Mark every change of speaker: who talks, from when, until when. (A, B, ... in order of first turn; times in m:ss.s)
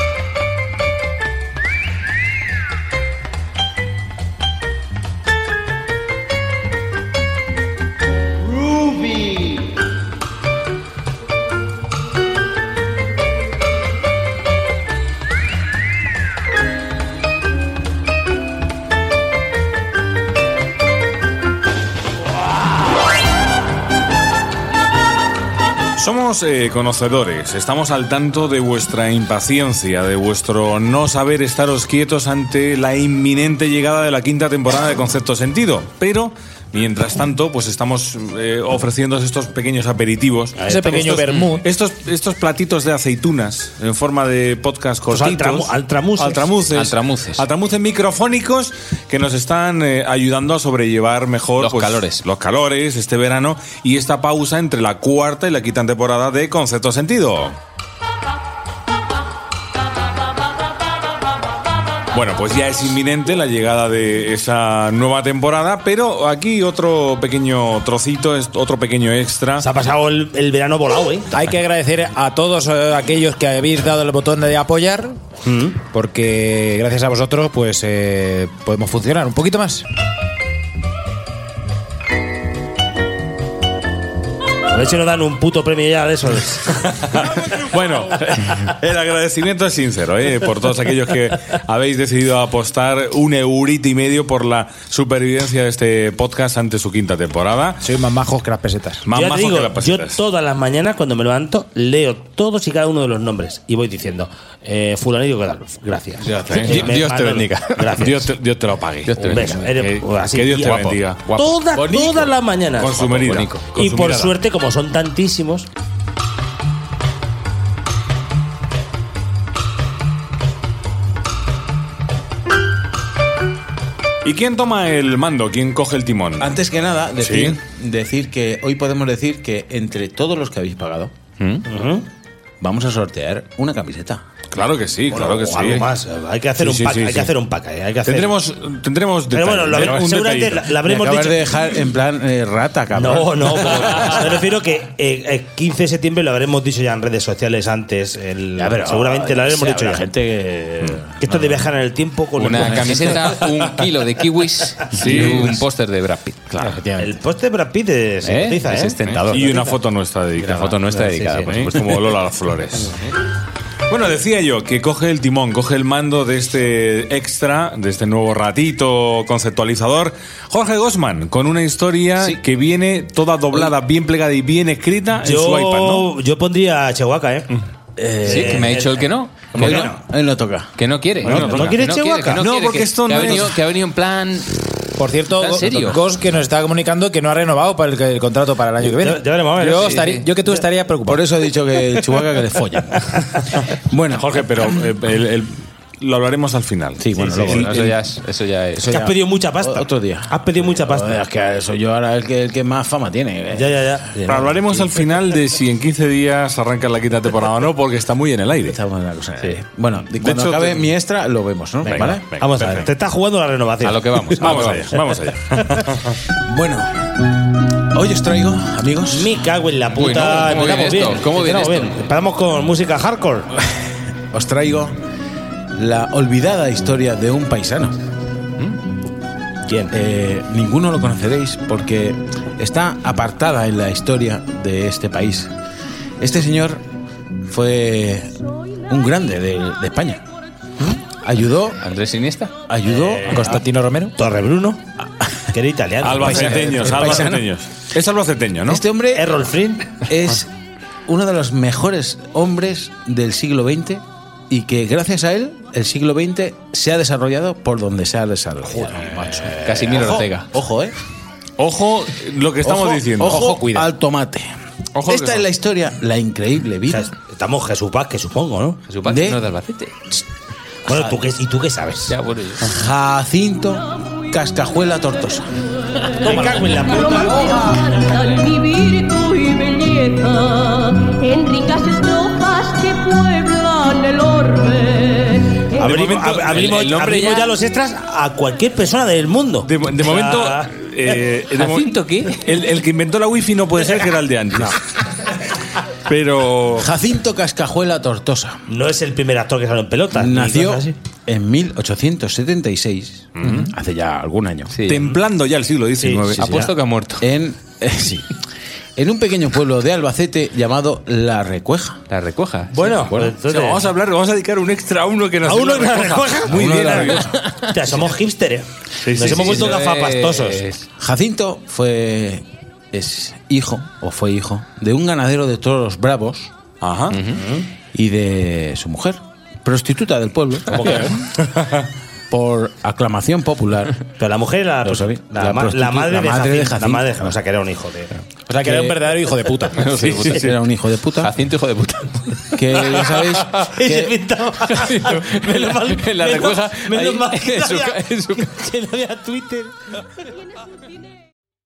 0:26.0-0:40.6 A
0:40.6-0:41.2 B
0:40.7-0:41.6 C
0:41.1-0:57.6 A
0:45.1-0:46.5 B
0:46.8-0:47.4 D
0:51.6-0:52.2 D
1:02.1-1:09.7 A
1:09.6-1:11.3 B
1:11.3-1:15.2 C
1:15.4-1:15.8 B
1:15.9-1:19.8 C
1:24.7-1:26.8 B
1:26.8-1:37.8 A
1:37.8-1:39.1 C
1:39.1-1:40.2 A
1:39.1-1:48.3 B
1:46.2-1:47.9 D
1:46.5-1:46.9 A
1:48.0-1:49.5 A
1:49.1-1:50.0 D
1:49.2-1:53.1 B
1:50.3-1:51.3 A
1:51.2-1:52.0 D
1:52.8-1:54.3 A
1:53.1-1:53.7 D
1:53.7-1:55.7 B
2:04.2-2:06.5 A
2:06.4-2:11.1 E
2:07.2-2:07.5 A
2:11.7-2:12.0 B
2:12.6-2:14.2 E
2:14.5-2:15.9 A
2:15.1-2:18.4 B
2:16.6-2:17.3 A
2:18.0-2:20.7 A
2:19.3-2:21.7 B
2:20.8-2:24.3 E
2:22.9-2:30.0 B
2:28.6-2:31.3 E
2:31.2-2:33.2 B
2:32.4-2:37.0 D
2:34.9-2:35.5 A
2:37.0-2:39.7 B
2:38.2-2:39.6 D
2:39.0-2:40.9 A
2:40.6-2:42.1 D
2:40.9-2:41.4 B
2:41.5-2:42.9 A
2:43.9-2:56.1 A
2:55.2-2:57.5 B
2:58.0-2:58.7 E
2:58.2-3:00.0 B
2:58.3-2:59.7 D
2:59.5-3:00.7 E
3:00.8-3:04.6 D
3:01.2-3:02.5 B
3:01.2-3:01.8 E
3:01.4-3:01.7 A
3:02.4-3:03.6 A
3:05.0-3:11.2 C
3:05.3-3:06.0 D
3:05.6-3:06.0 E
3:08.8-3:10.6 B
3:09.9-3:10.3 D
3:11.0-3:13.2 E
3:13.1-3:13.3 B
3:13.7-3:14.3 E
3:14.2-3:18.0 A
3:17.0-3:17.9 E
3:17.4-3:18.8 D
3:18.7-3:23.8 E
3:18.9-3:21.2 B
3:23.5-3:25.1 B
3:24.3-3:28.8 A
3:28.6-3:32.2 E
3:30.2-3:30.9 A
3:31.8-3:34.7 B
3:31.9-3:32.9 A
3:33.8-3:34.9 D
3:34.4-3:36.2 A
3:36.4-3:36.9 E
3:37.9-3:39.3 E
3:39.1-3:43.5 B
3:39.9-3:42.1 D
3:44.3-3:45.0 E
3:45.8-3:48.0 E
3:49.6-3:49.9 B
3:49.9-3:55.5 E
3:56.2-3:56.8 E
3:57.5-3:58.3 E
3:58.9-4:00.2 E
4:01.0-4:01.8 E
4:01.8-4:02.5 D
4:02.7-4:03.6 E
4:02.9-4:03.4 B
4:03.3-4:04.1 C
4:04.2-4:04.8 B
4:05.5-4:06.8 B
4:06.0-4:08.8 A
4:06.2-4:07.5 E
4:08.6-4:09.3 E
4:09.1-4:10.0 B
4:10.0-4:10.5 E
4:11.1-4:20.9 E
4:19.6-4:20.4 D
4:21.6-4:23.4 A
4:22.6-4:24.5 E
4:23.3-4:23.8 C
4:25.0-4:25.4 A
4:25.0-4:27.1 E
4:26.9-4:28.8 B
4:28.9-4:29.9 D
4:29.0-4:29.4 E
4:30.9-4:31.2 E
4:30.9-4:32.1 B
4:32.1-4:32.7 D
4:32.6-4:35.5 E
4:36.2-4:37.8 B
4:37.6-4:45.6 F
4:45.8-4:50.8 B
4:45.8-4:47.1 A
4:46.7-4:47.4 D
4:49.6-4:54.8 A
4:51.6-4:52.4 D
4:56.0-4:56.9 A
4:56.8-4:58.6 E
4:58.7-5:01.0 B
5:00.1-5:04.8 E
5:03.4-5:03.7 A
5:04.7-5:05.2 D
5:04.8-5:06.4 A
5:06.0-5:06.6 B
5:06.3-5:08.3 E
5:06.4-5:07.3 D
5:09.0-5:12.0 E
5:12.1-5:12.8 D
5:12.7-5:13.9 B
5:12.9-5:13.4 E
5:13.5-5:17.3 A
5:15.4-5:20.7 B
5:16.4-5:17.3 E
5:17.3-5:17.7 D
5:19.0-5:19.5 A
5:19.0-5:20.8 D
5:21.0-5:26.5 E
5:26.8-5:27.2 A
5:27.1-5:27.4 D
5:27.3-5:27.7 B
5:27.9-5:31.3 E
5:30.7-5:31.1 B
5:32.3-5:34.0 E
5:34.2-5:38.1 B
5:34.8-5:37.3 E
5:38.5-5:39.8 C
5:38.6-5:39.0 E
5:39.7-5:40.5 D
5:40.1-5:41.3 E
5:41.2-5:42.4 D
5:42.5-5:44.1 E
5:42.7-5:49.8 B
5:44.8-5:48.5 D